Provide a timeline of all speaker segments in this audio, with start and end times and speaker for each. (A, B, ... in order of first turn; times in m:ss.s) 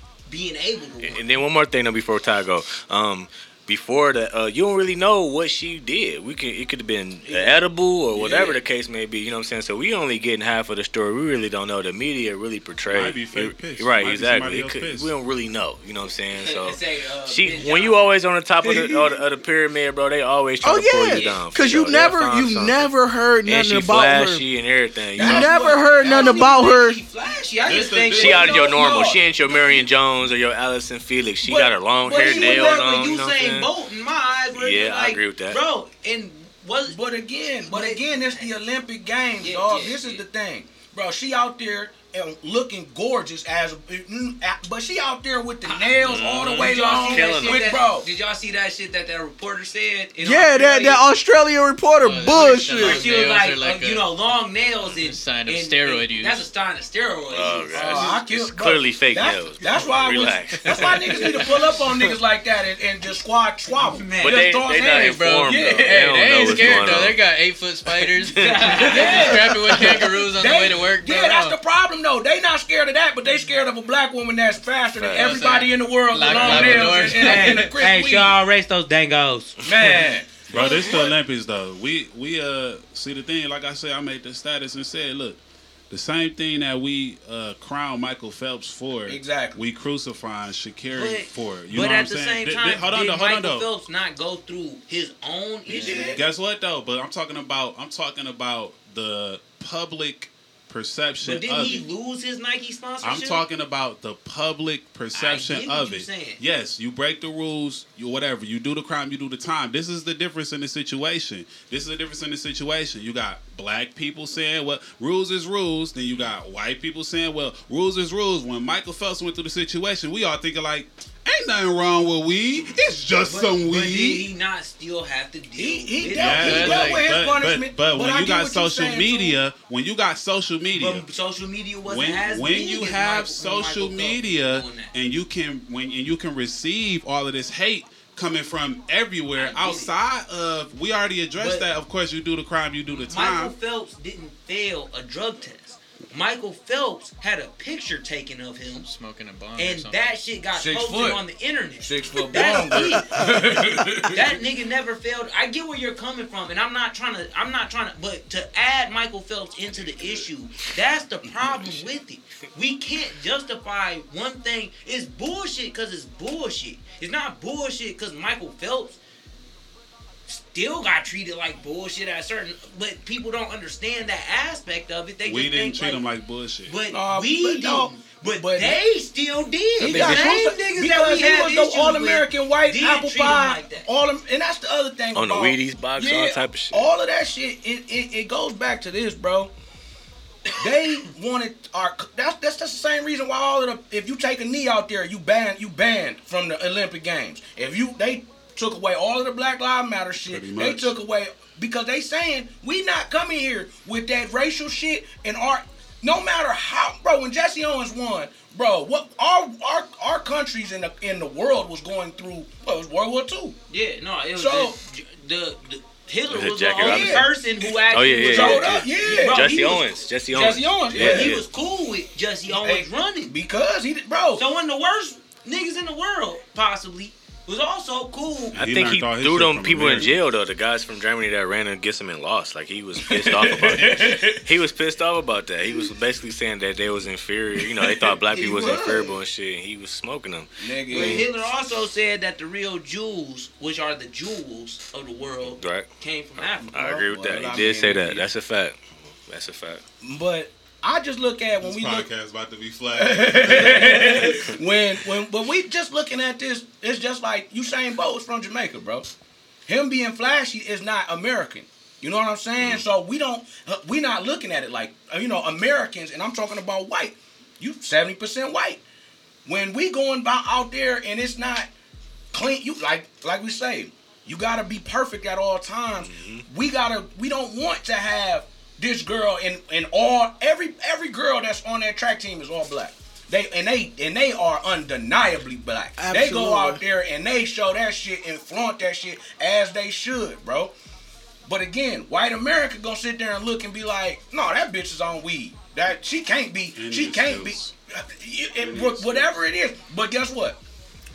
0:00.3-0:01.2 A
0:01.0-0:22.9 B
0:07.3-0:07.6 A
0:08.2-0:08.6 A
0:08.2-0:08.5 C
0:12.9-0:15.1 D
0:16.4-0:18.0 A
0:18.6-0:19.2 A
0:20.6-0:24.4 E
0:21.1-0:21.4 A
0:23.4-0:25.5 B
0:25.2-0:26.6 C
0:25.2-0:27.0 E
0:25.6-0:28.7 A
0:27.6-0:28.6 D
0:28.1-0:29.2 C
0:28.2-0:33.7 B
0:29.5-0:29.8 A
0:31.4-0:32.8 C
0:32.2-0:37.0 A
0:34.6-0:35.6 B
0:36.9-0:48.1 C
0:37.7-0:38.5 A
0:39.4-0:40.2 A
0:45.6-0:51.0 A
0:46.0-0:47.7 B
0:50.2-0:53.0 E
0:52.0-0:54.1 F
0:52.8-0:58.2 A
0:54.9-0:56.5 F
0:57.3-1:01.8 B
0:57.7-1:07.0 C
0:59.6-1:00.0 A
1:01.0-1:01.4 F
1:03.7-1:04.5 A
1:04.2-1:07.2 B
1:05.1-1:11.6 F
1:08.3-1:09.1 B
1:08.4-1:09.4 A
1:08.9-1:18.4 C
1:15.0-1:15.4 B
1:15.1-1:17.7 F
1:16.2-1:21.0 A
1:19.6-1:21.1 C
1:20.5-1:25.4 D
1:25.9-1:33.7 D
1:29.1-1:29.6 C
1:30.9-1:36.2 A
1:35.7-1:36.2 C
1:36.1-1:41.9 D
1:41.2-1:43.4 A
1:43.0-2:04.3 D
1:45.1-1:46.4 A
2:03.2-2:06.7 A
2:05.6-2:09.4 C
2:06.2-2:11.0 D
2:06.4-2:07.1 F
2:10.7-2:14.9 A
2:11.8-2:23.5 D
2:19.4-2:19.9 A
2:21.4-2:21.7 A
2:22.9-2:28.9 A
2:28.8-2:30.2 F
2:29.6-2:33.1 A
2:30.5-2:31.2 C
2:31.8-2:34.4 C
2:32.7-2:33.3 E
2:34.0-2:49.0 A
2:41.3-2:41.6 C
2:50.3-2:56.0 A
2:55.2-2:56.8 D
2:56.7-3:03.9 A
2:56.9-2:58.8 C
2:59.8-3:09.5 C
2:59.8-3:00.3 B
3:05.1-3:06.9 B
3:10.5-3:33.6 C
3:20.3-3:20.9 D
3:33.7-3:40.0 A
3:34.4-3:34.8 C
3:36.3-3:37.3 B
3:36.8-3:37.3 C
3:37.9-3:41.4 B
3:38.3-3:39.5 C
3:40.3-3:41.3 C
3:40.9-3:43.3 A
3:42.5-3:44.4 C
3:44.4-3:48.6 A
3:48.5-3:50.2 D
3:48.6-4:01.3 B
3:53.0-3:54.4 C
3:57.6-3:59.2 C
4:00.6-4:01.3 C
4:00.9-4:06.7 A
4:05.4-4:05.9 B
4:06.4-4:09.8 B
4:06.6-4:08.2 C
4:10.0-4:12.1 C
4:11.6-4:14.6 D
4:12.9-4:19.1 C
4:13.8-4:14.1 A
4:19.7-4:28.8 C
4:29.5-4:31.7 C
4:32.3-4:50.7 C
4:36.0-4:36.4 B
4:46.0-4:46.8 E
4:51.5-5:00.6 C
4:56.8-4:57.7 D
4:58.6-4:59.3 D